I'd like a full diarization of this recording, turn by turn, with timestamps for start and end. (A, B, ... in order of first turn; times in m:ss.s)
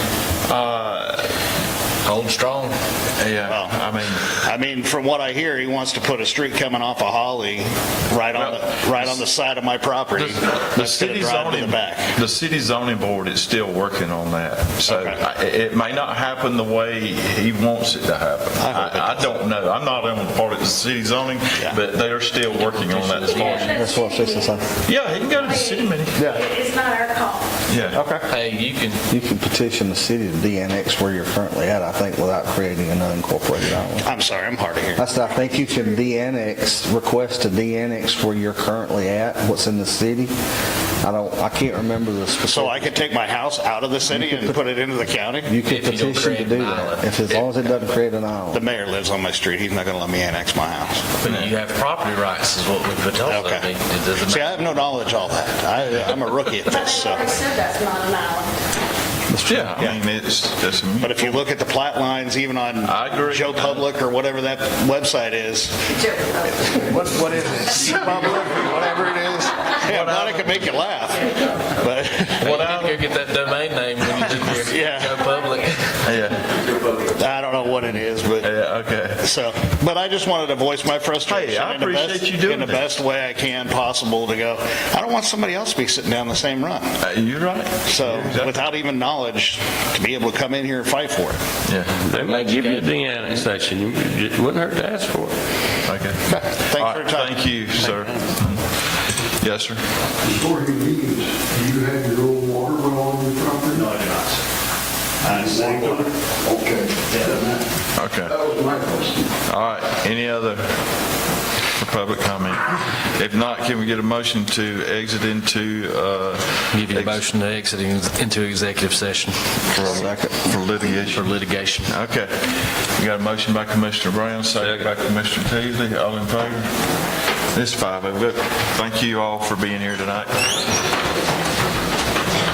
0:00.5-0:01.4 A
0:02.0-0:02.8 B
0:03.2-0:04.4 A
0:03.4-0:12.1 C
0:08.3-0:09.2 A
0:10.2-0:23.8 A
0:14.8-0:15.2 C
0:18.6-0:19.3 C
0:22.5-0:24.0 B
0:23.3-0:27.5 D
0:23.7-0:24.7 E
0:24.8-0:26.2 A
0:27.7-0:28.0 A
0:27.9-0:28.3 E
0:28.3-0:29.0 B
0:29.1-0:34.1 E
0:34.0-0:35.1 C
0:35.0-0:40.3 E
0:41.0-0:43.0 E
0:42.5-0:45.5 C
0:44.1-0:44.5 E
0:45.4-0:48.6 E
0:45.6-0:47.8 B
0:48.5-0:51.0 C
0:51.2-0:55.1 B
0:51.2-0:51.5 A
0:53.2-0:53.7 C
0:54.2-0:57.4 C
0:56.6-0:58.5 D
0:59.3-0:59.7 E
0:59.4-1:01.4 A
1:01.0-1:05.8 C
1:02.8-1:03.9 A
1:06.0-1:06.7 D
1:06.7-1:12.5 C
1:09.8-1:10.7 A
1:12.4-1:13.0 A
1:12.4-1:16.1 B
1:14.5-1:15.3 C
1:16.0-1:16.6 A
1:17.1-1:18.5 C
1:18.4-1:19.2 A
1:19.2-1:26.9 C
1:21.2-1:22.8 A
1:27.0-1:28.8 A
1:27.8-1:31.4 C
1:31.6-1:32.0 A
1:32.0-1:35.4 F
1:32.0-1:33.5 B
1:35.8-1:39.8 A
1:36.3-1:37.4 C
1:40.2-1:43.9 G
1:43.7-1:44.4 C
1:45.2-1:46.1 C
1:45.2-1:47.6 G
1:47.1-1:47.4 C
1:47.9-1:48.4 A
1:48.2-1:49.3 G
1:49.4-1:50.8 A
1:51.8-1:57.2 A
1:56.7-1:59.4 B
1:59.7-2:06.8 A
1:59.7-2:00.6 E
2:01.1-2:01.9 B
2:07.5-2:10.4 A